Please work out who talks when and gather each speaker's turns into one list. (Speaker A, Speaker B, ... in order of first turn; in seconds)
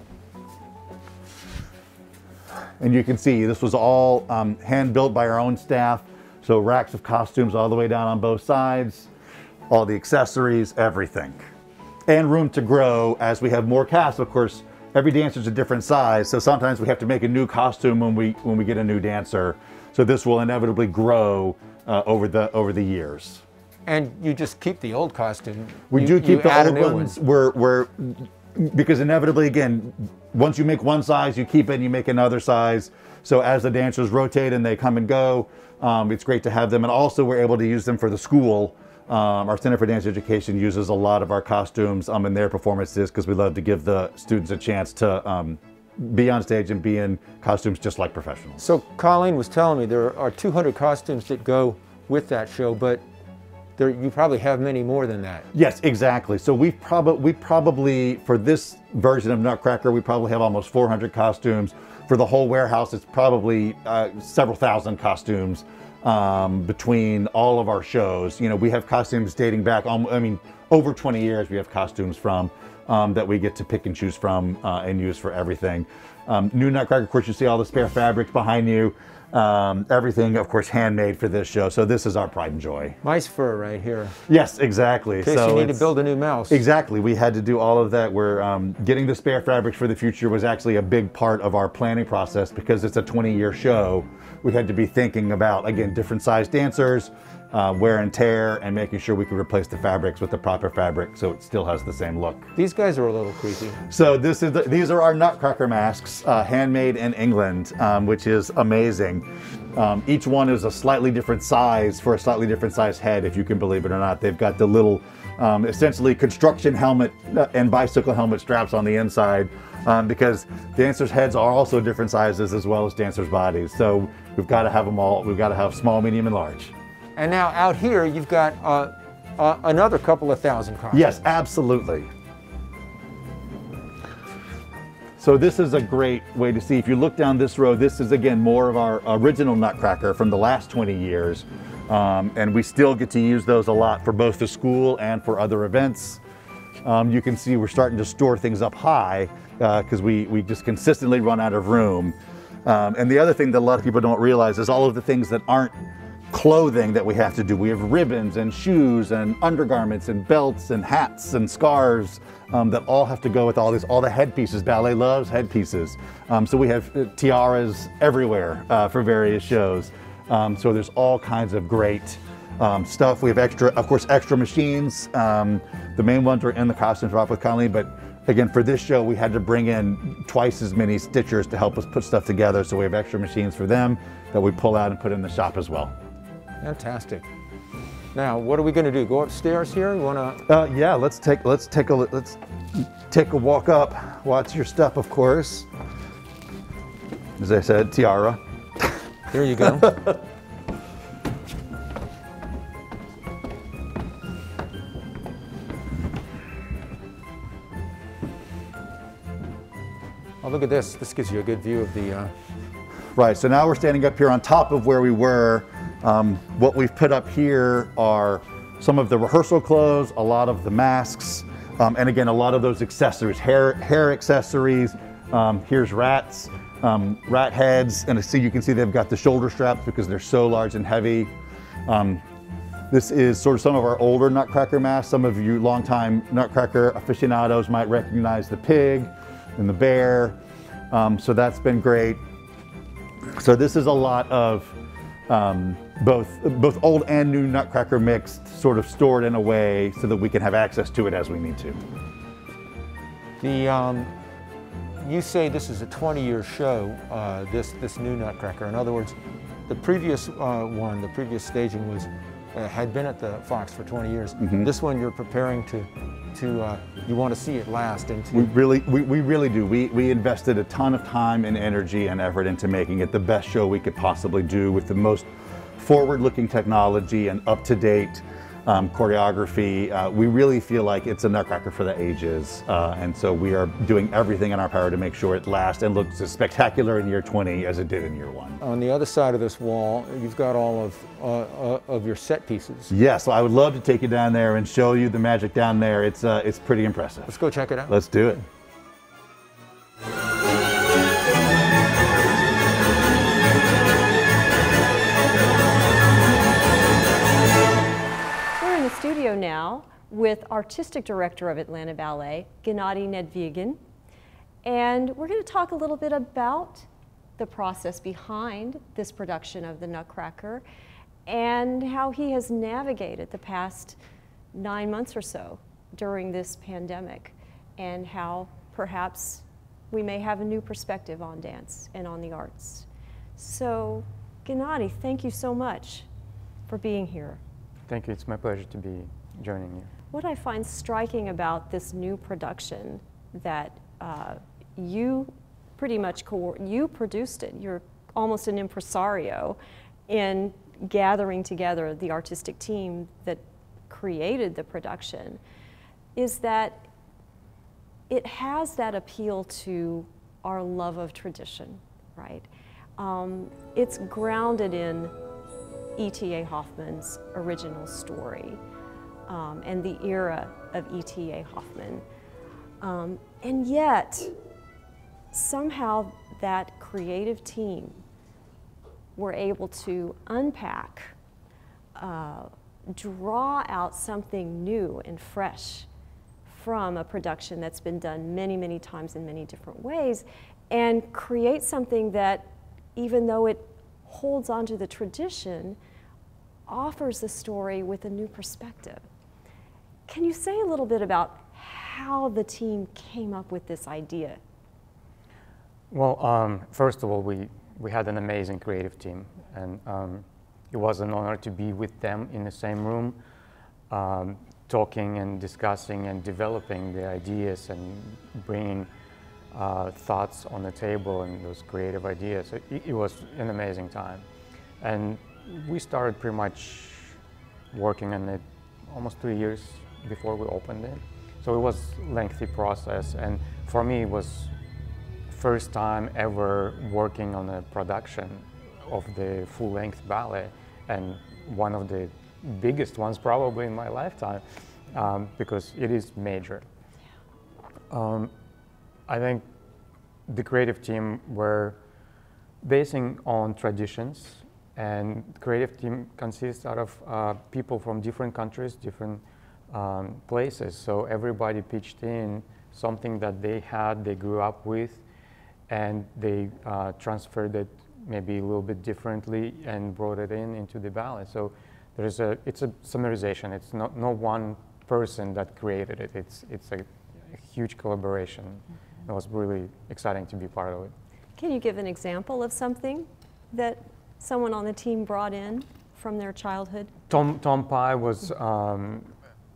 Speaker A: 2.8-9.1, 9.7-11.4, 12.1-23.4, 25.9-48.7, 55.5-83.0, 84.3-85.9, 86.5-102.5, 103.9-126.7, 130.9-132.1, 135.2-146.2, 146.8-155.8, 156.3-185.9, 190.4-195.7, 197.4-198.4, 199.8-200.1, 213.2-231.3, 231.9-232.2, 232.9-240.4, 240.9-242.2, 243.3-244.8, 245.3-251.8, 264.4-264.7, 268.3-288.6, 292.9-297.3, 297.9-298.4
Speaker B: 23.9-27.2, 48.6-53.0, 53.8-55.5, 83.0-84.2, 85.2-86.6, 102.5-103.8, 127.2-131.3, 186.6-187.3, 188.1-190.4, 199.3-199.9, 210.4-212.3, 253.4-254.1, 255.0-259.1, 259.7-268.5, 288.6-292.9, 297.3-298.0
Speaker C: 308.6-313.8, 314.6-320.6, 321.2-324.0, 324.5-332.9, 333.4-336.1, 336.7-337.4, 340.1-355.4, 356.1-356.9, 358.1-365.1, 365.9-368.6, 369.3-372.0, 372.8-374.3, 375.3-378.0, 379.1-381.1, 381.9-385.9, 386.4-395.8, 396.7-399.0, 400.1-404.4, 481.4-486.9
Speaker D: 337.9-339.9, 405.9-413.2, 413.9-418.9, 419.5-424.2, 424.8-427.2, 427.7-434.5, 435.3-446.6, 447.9-448.3, 449.1-449.4, 450.3-451.8, 452.6-465.0, 465.7-480.9, 487.1-489.1